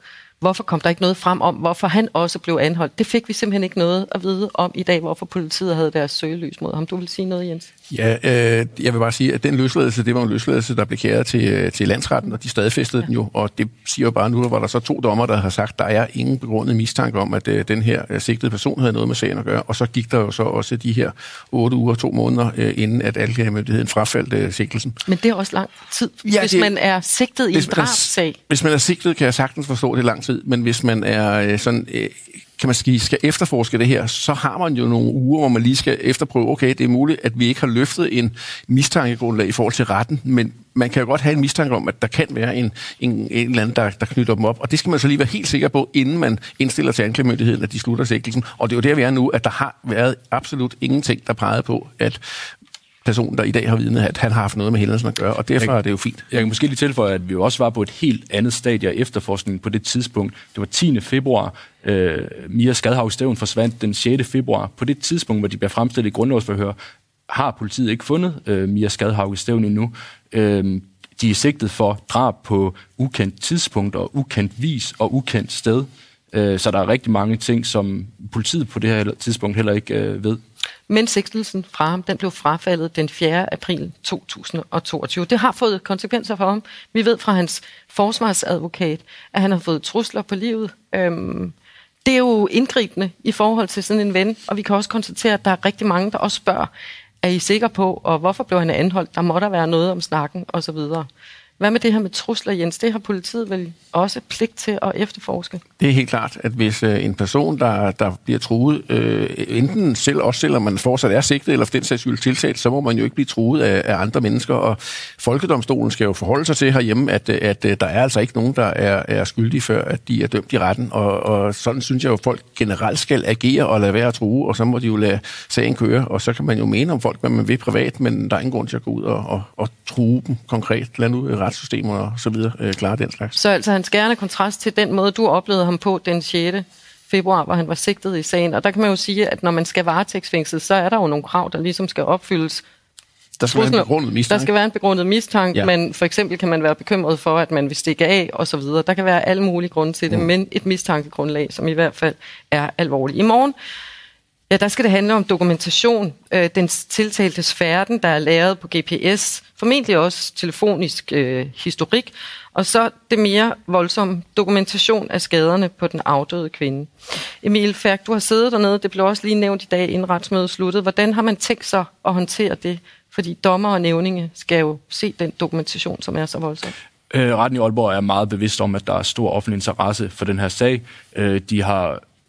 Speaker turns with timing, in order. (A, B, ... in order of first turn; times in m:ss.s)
0:00.4-0:07.7 A
0:07.9-0:25.0 B
0:25.0-0:28.4 A
0:26.2-0:26.7 B
0:27.5-0:52.2 B
0:53.0-0:56.2 B
0:56.3-1:06.8 C
1:07.3-1:20.4 C
1:20.9-1:31.5 A
1:32.0-1:36.7 A
1:37.2-1:41.1 A
1:41.6-1:45.6 A
1:45.8-2:13.3 B
2:13.4-2:22.6 A
2:23.4-2:24.5 B
2:23.5-2:33.5 A
2:34.5-2:46.9 A
2:47.4-2:56.7 A
2:57.1-3:02.0 C